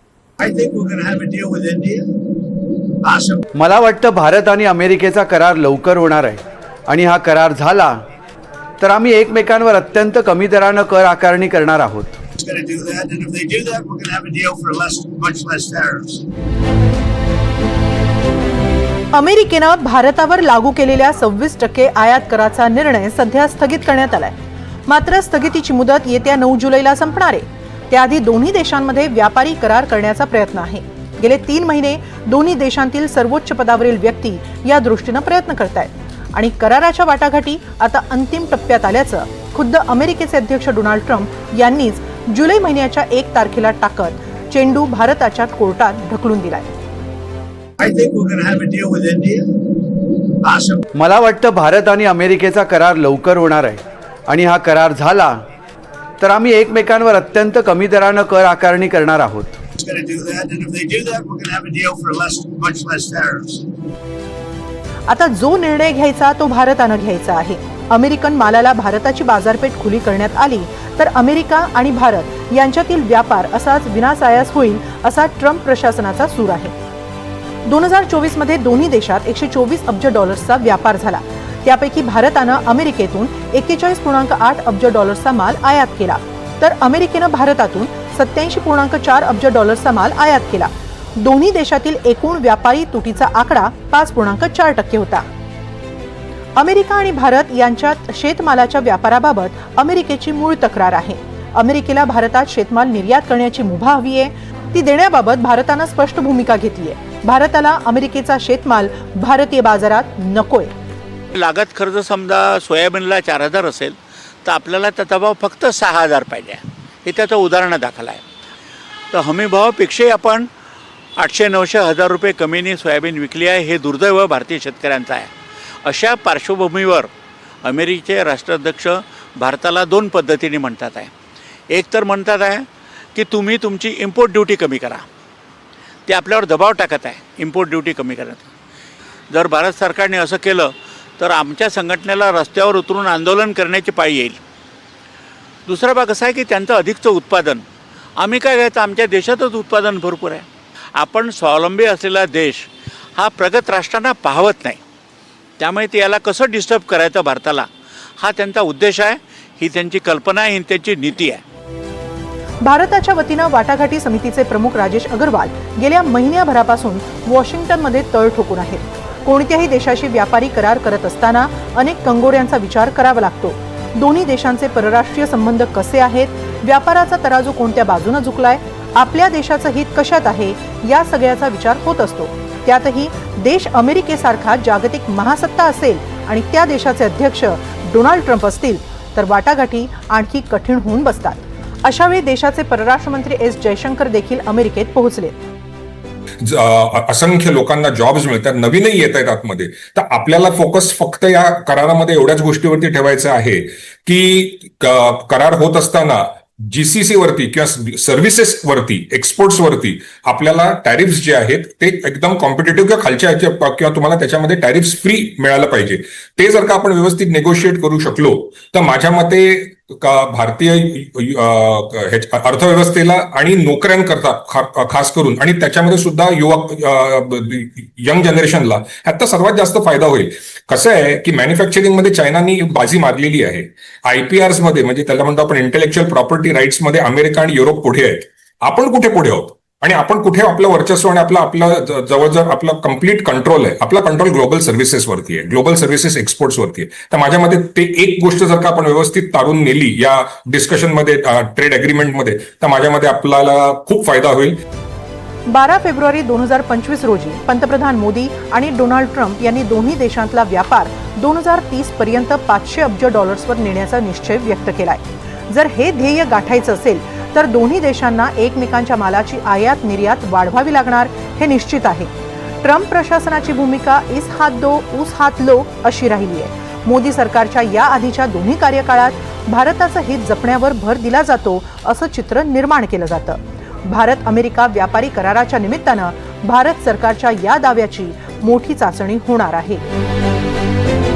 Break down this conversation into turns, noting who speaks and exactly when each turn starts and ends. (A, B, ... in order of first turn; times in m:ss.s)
0:00.4-0:02.1 A
0:03.0-0:03.4 A
0:03.6-0:08.0 B
0:08.8-0:12.2 B
0:12.4-0:16.3 A
0:19.1-0:24.3 C
0:24.9-0:46.7 C
0:47.8-0:49.5 A
0:50.4-0:50.8 A
0:51.0-0:55.4 B
0:56.2-0:59.6 B
0:59.8-1:03.7 A
1:05.1-1:16.7 C
1:17.6-1:35.2 C
1:36.6-1:50.7 C
1:51.3-1:58.2 D
1:59.1-2:00.5 D
2:01.2-2:05.3 D
2:05.8-2:07.1 D
2:07.6-2:11.1 D
2:11.7-2:15.0 D
2:16.1-2:18.5 D
2:19.3-2:24.4 D
2:25.7-2:27.6 D
2:28.2-2:30.4 D
2:31.0-2:34.8 D
2:35.6-2:37.7 D
2:38.2-2:41.4 D
2:42.6-3:15.4 C
3:16.4-4:14.6 E
4:15.5-4:32.1 C
4:32.6-4:49.8 C